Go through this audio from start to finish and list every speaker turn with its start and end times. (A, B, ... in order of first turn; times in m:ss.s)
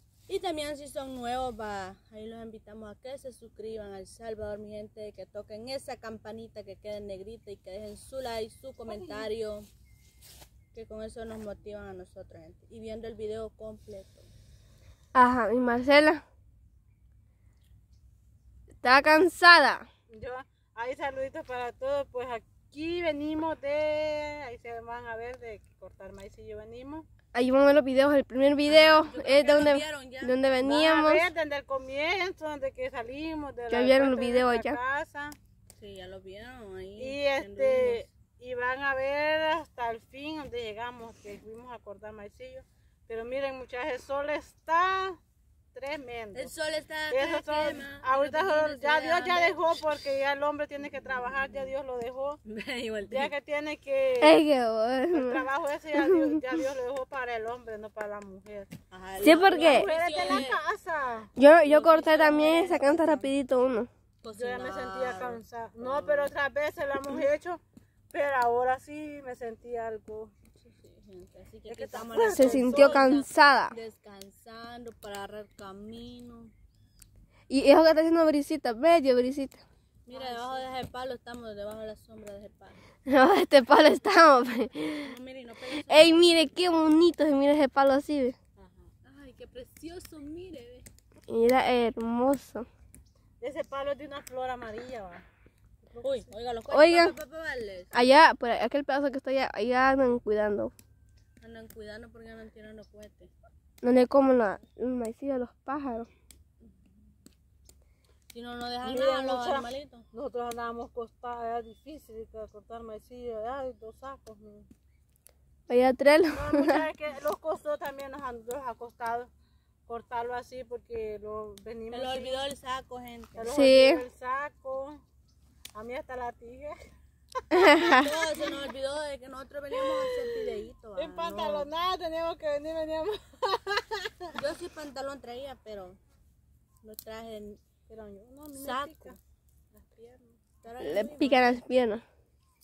0:00.3-0:09.7 A
0:08.8-0:09.3 B
0:10.7-0:14.3 A
0:15.2-0:16.2 C
0:18.8-0:19.9 C
0:20.1-0:27.1 B
0:27.3-0:31.3 C
0:28.7-0:30.4 A
0:30.6-0:35.4 B
0:33.7-0:34.8 C
0:35.8-0:38.1 A
0:37.0-0:45.2 B
0:45.7-0:46.5 B
0:46.3-0:49.8 A
0:47.1-0:52.4 B
0:51.1-0:51.7 A
0:52.4-0:53.3 A
0:53.0-0:54.4 B
0:54.2-0:55.4 C
0:55.1-0:58.7 B
0:58.9-1:00.6 A
0:59.2-0:59.9 C
0:59.4-1:01.3 B
1:01.4-1:03.9 C
1:01.6-1:03.1 A
1:02.3-1:03.3 B
1:04.2-1:06.3 A
1:04.3-1:07.6 B
1:08.1-1:10.3 B
1:10.6-1:16.5 A
1:11.7-1:13.1 B
1:12.3-1:13.8 C
1:17.5-1:19.6 C
1:20.1-1:22.8 A
1:20.1-1:20.7 B
1:23.1-1:25.1 C
1:25.0-1:26.5 A
1:25.9-1:28.4 C
1:28.6-1:28.9 B
1:29.0-1:30.9 A
1:31.3-1:32.7 C
1:33.4-1:35.2 B
1:35.8-1:36.3 B
1:36.0-1:37.9 A
1:36.7-1:37.2 C
1:37.9-1:40.7 C
1:41.4-1:43.3 A
1:43.8-1:46.1 C
1:48.3-1:50.1 A
1:48.8-1:54.7 B
1:55.7-1:56.8 C
1:56.3-1:59.3 B
1:59.9-2:02.4 B
2:01.9-2:03.5 A
2:03.4-2:05.0 B
2:03.5-2:04.0 C
2:05.7-2:06.8 B
2:07.5-2:08.1 C
2:07.7-2:08.6 B
2:08.0-2:11.7 A
2:09.7-2:14.4 B
2:14.3-2:16.0 A
2:16.8-2:17.6 A
2:17.9-2:19.2 B
2:18.6-2:19.2 A
2:19.7-2:20.4 B
2:20.6-2:21.6 A
2:20.8-2:22.0 C